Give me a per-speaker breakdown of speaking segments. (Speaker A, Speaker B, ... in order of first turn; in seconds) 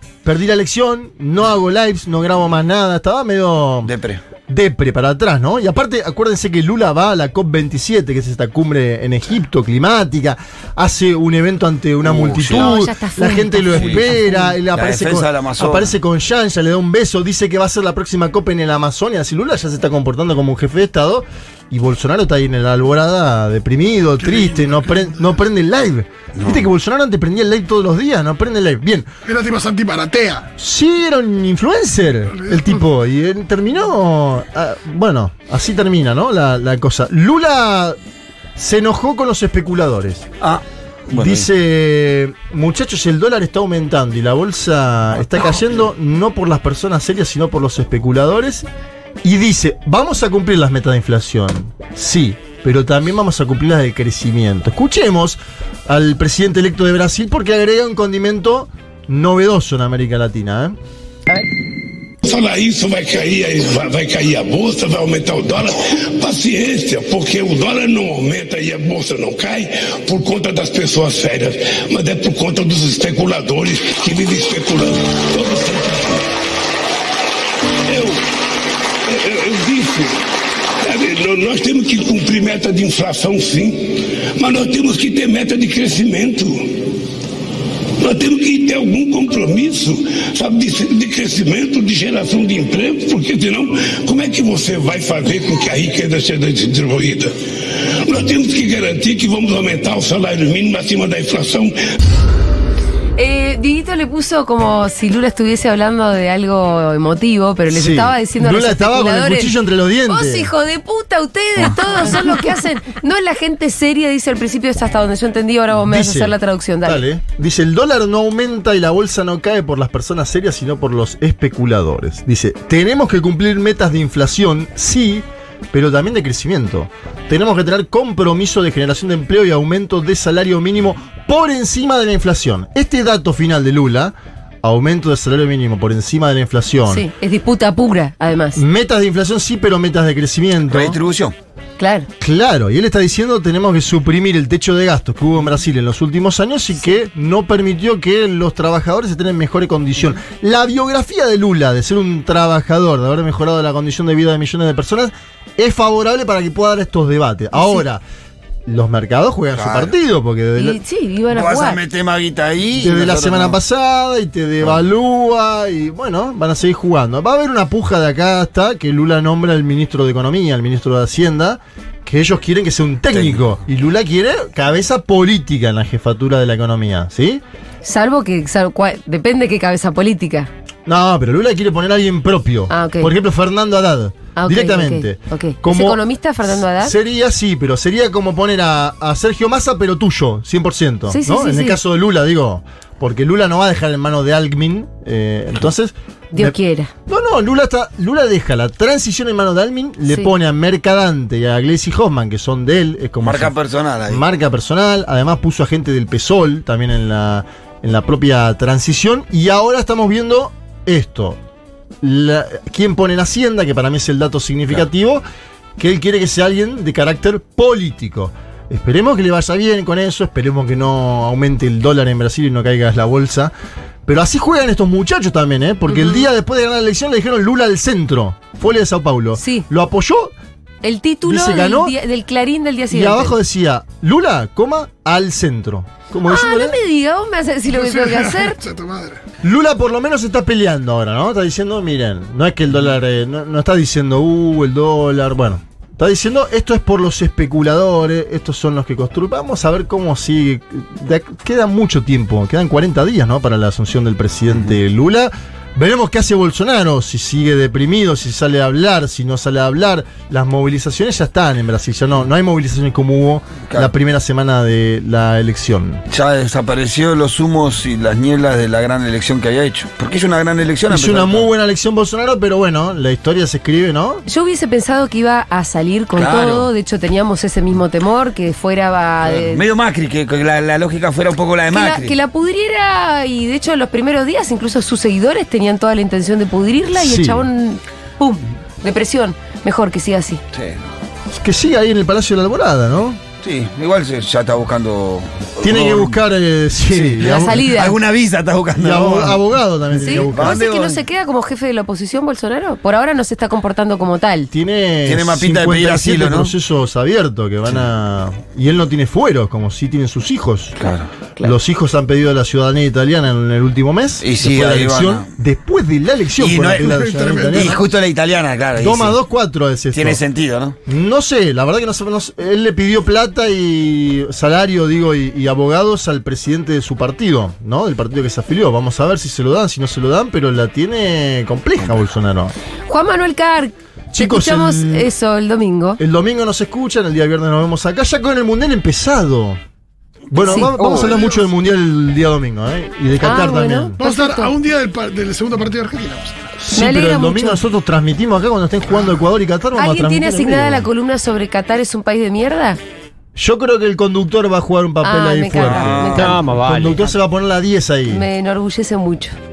Speaker A: 0.2-3.9, 4.5-29.1, 30.6-38.0, 38.6-40.3, 41.1-48.7, 49.2-60.8, 107.7-110.5, 115.8-137.1, 138.6-141.0, 142.2-158.0, 158.7-160.8, 162.8-177.4, 180.9-186.0, 186.7-196.6, 197.1-203.5, 204.1-211.4, 212.0-215.2, 215.8-223.5, 224.1-230.3, 231.2-232.0, 232.9-236.8, 239.4-266.0, 270.9-274.2, 287.0-287.5, 291.3-293.2, 295.6-297.8, 298.8-300.6, 304.5-310.8, 311.4-317.8, 318.8-320.2, 320.9-332.5, 334.1-335.1, 336.0-339.6, 340.3-344.0, 346.6-350.9, 353.4-358.2
Speaker B: 3.9-4.2, 12.0-12.8, 13.7-14.0, 14.7-15.9, 26.4-26.6, 40.4-41.5, 140.7-141.3, 159.6-159.9, 161.3-163.6, 173.1-173.4, 203.2-204.2, 266.1-271.5, 276.1-276.7, 279.2-282.1, 290.5-290.8, 293.4-296.2, 296.9-299.4, 300.1-301.0, 305.1-306.5, 310.8-311.1, 314.2-315.3, 316.4-319.2, 319.9-320.8, 355.6-357.1
Speaker C: 12.5-14.5, 103.2-109.5, 110.1-117.0, 136.9-138.6, 141.8-142.1, 157.6-157.8, 160.6-161.8, 177.8-180.5, 182.7-183.1, 184.4-186.9, 191.1-191.8, 196.3-196.9, 225.9-226.2, 229.4-229.7, 230.8-233.4, 236.3-238.6, 274.3-279.6, 281.7-290.4, 297.2-297.9, 300.0-304.5, 332.9-336.0, 340.4-341.1, 343.2-344.5, 346.7-347.6, 349.8-352.8, 355.0-356.4, 358.1-359.4
Speaker D: 24.2-25.3, 29.3-30.5, 32.3-32.8, 237.7-239.2, 316.8-317.8, 341.0-341.4, 344.0-346.6
Speaker E: 62.2-76.3, 77.8-78.3, 79.0-80.2, 80.8-86.9, 88.0-101.8